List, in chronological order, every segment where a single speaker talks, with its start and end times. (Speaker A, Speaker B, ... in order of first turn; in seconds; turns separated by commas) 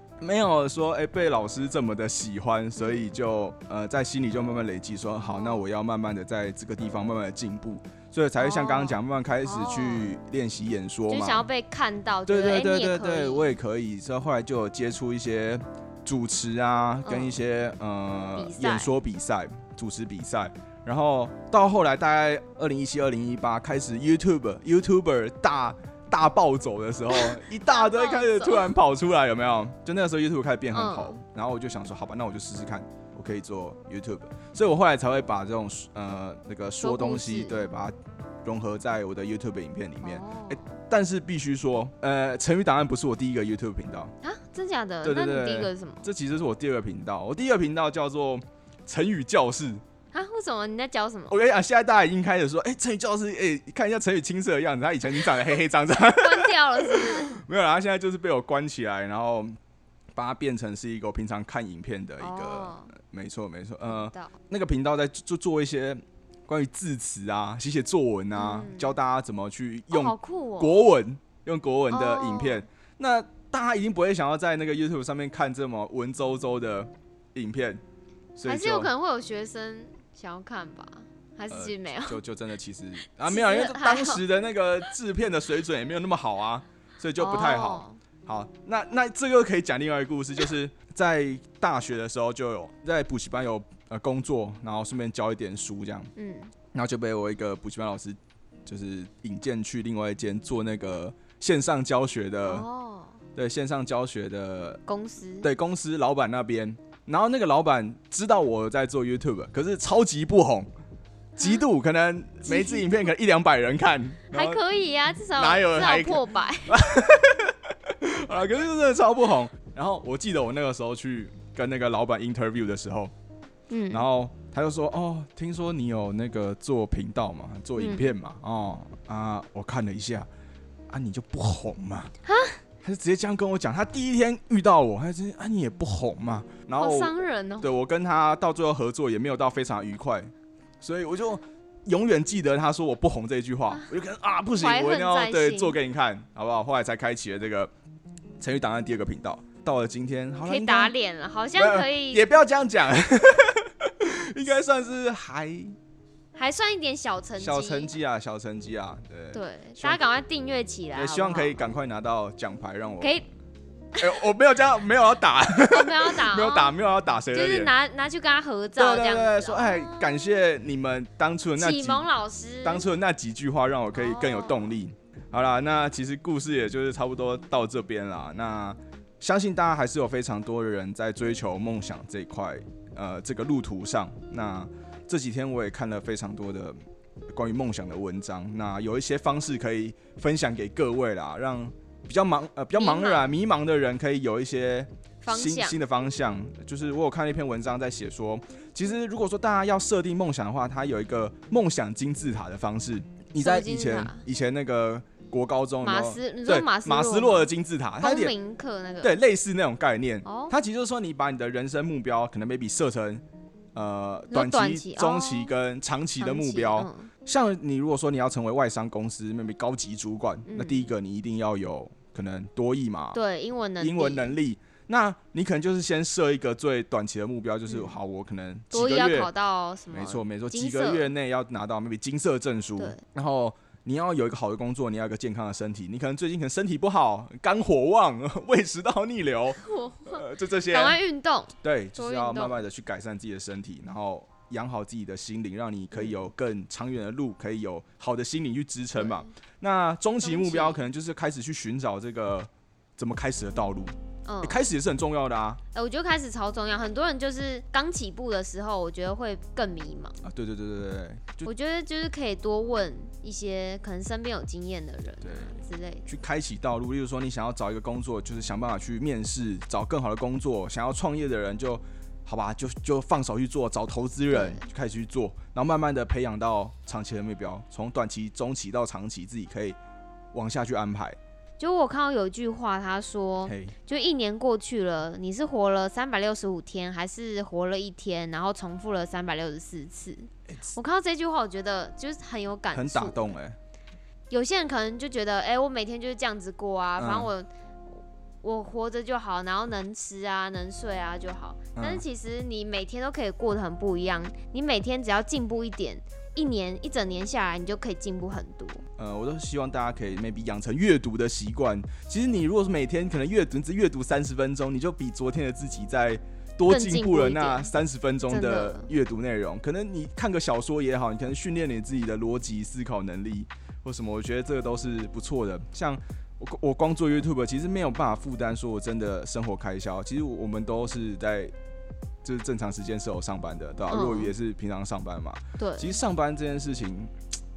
Speaker A: 0.2-11.5, Speaker B: 2.8-3.0, Speaker B: 5.3-5.6, Speaker B: 8.4-10.1, Speaker B: 11.1-13.6, Speaker A: 12.3-44.1, Speaker B: 17.1-17.4, Speaker B: 18.4-18.9, Speaker B: 27.1-28.7, Speaker B: 30.7-31.2, Speaker B: 36.8-37.7, Speaker B: 40.0-40.7, Speaker B: 44.2-46.1, Speaker A: 45.0-49.8, Speaker B: 50.1-51.4, Speaker A: 51.3-59.6, Speaker B: 56.1-57.4, Speaker A: 60.1-77.8, Speaker B: 62.2-62.9, Speaker B: 63.9-64.3, Speaker B: 68.3-69.0, Speaker B: 69.9-70.9, Speaker B: 71.9-72.7, Speaker A: 78.4-78.9, Speaker B: 78.5-82.2, Speaker A: 81.5-96.1, Speaker B: 83.2-84.2, Speaker B: 87.2-88.0, Speaker B: 96.2-96.5, Speaker A: 96.7-102.7, Speaker B: 102.5-103.2, Speaker A: 103.4-104.8, Speaker B: 104.9-105.5, Speaker A: 105.4-110.7, Speaker B: 111.4-111.6, Speaker A: 111.4-114.6, Speaker B: 112.5-112.9, Speaker B: 114.3-116.8, Speaker A: 115.4-123.1, Speaker B: 123.7-124.0, Speaker A: 123.9-130.3, Speaker B: 127.8-128.1, Speaker A: 130.9-132.1, Speaker B: 132.3-132.6, Speaker A: 132.8-147.7, Speaker B: 136.8-137.7, Speaker B: 144.6-145.8, Speaker A: 148.4-150.9, Speaker B: 150.4-152.3, Speaker A: 151.6-155.8, Speaker B: 156.4-157.9, Speaker A: 157.4-160.0, Speaker B: 159.3-161.6, Speaker A: 160.9-163.2, Speaker B: 163.0-163.3, Speaker A: 164.0-167.7, Speaker B: 165.7-166.7, Speaker B: 167.3-170.1, Speaker A: 168.8-172.1, Speaker B: 171.6-172.9, Speaker A: 172.6-186.8, Speaker B: 173.9-174.7, Speaker A: 187.3-208.4, Speaker B: 192.8-193.3, Speaker B: 195.2-195.8, Speaker B: 203.4-204.2, Speaker B: 205.8-209.2, Speaker A: 209.0-213.2, Speaker B: 210.2-210.5, Speaker A: 213.8-223.2, Speaker B: 214.3-215.5, Speaker B: 216.2-217.1, Speaker B: 220.5-220.9, Speaker B: 223.1-224.3, Speaker A: 223.8-229.3, Speaker B: 227.7-227.9, Speaker B: 228.7-231.1, Speaker A: 229.9-241.0, Speaker B: 232.8-233.0, Speaker B: 239.6-242.7, Speaker A: 241.6-255.6, Speaker B: 249.0-249.3, Speaker B: 250.2-250.8, Speaker B: 254.3-254.7, Speaker B: 255.7-260.2, Speaker A: 260.2-261.5, Speaker B: 261.4-266.1, Speaker A: 265.2-265.5, Speaker A: 266.1-279.8, Speaker B: 274.3-274.7, Speaker A: 280.3-281.2, Speaker B: 281.6-293.2, Speaker A: 283.4-283.8, Speaker A: 290.5-290.8, Speaker A: 292.7-293.6, Speaker B: 294.3-297.5, Speaker A: 297.0-297.3, Speaker B: 298.4-308.9, Speaker A: 301.8-302.0, Speaker A: 309.0-331.5, Speaker B: 316.7-317.7, Speaker B: 318.3-318.9, Speaker A: 332.2-337.1, Speaker B: 333.9-334.3, Speaker B: 335.6-336.0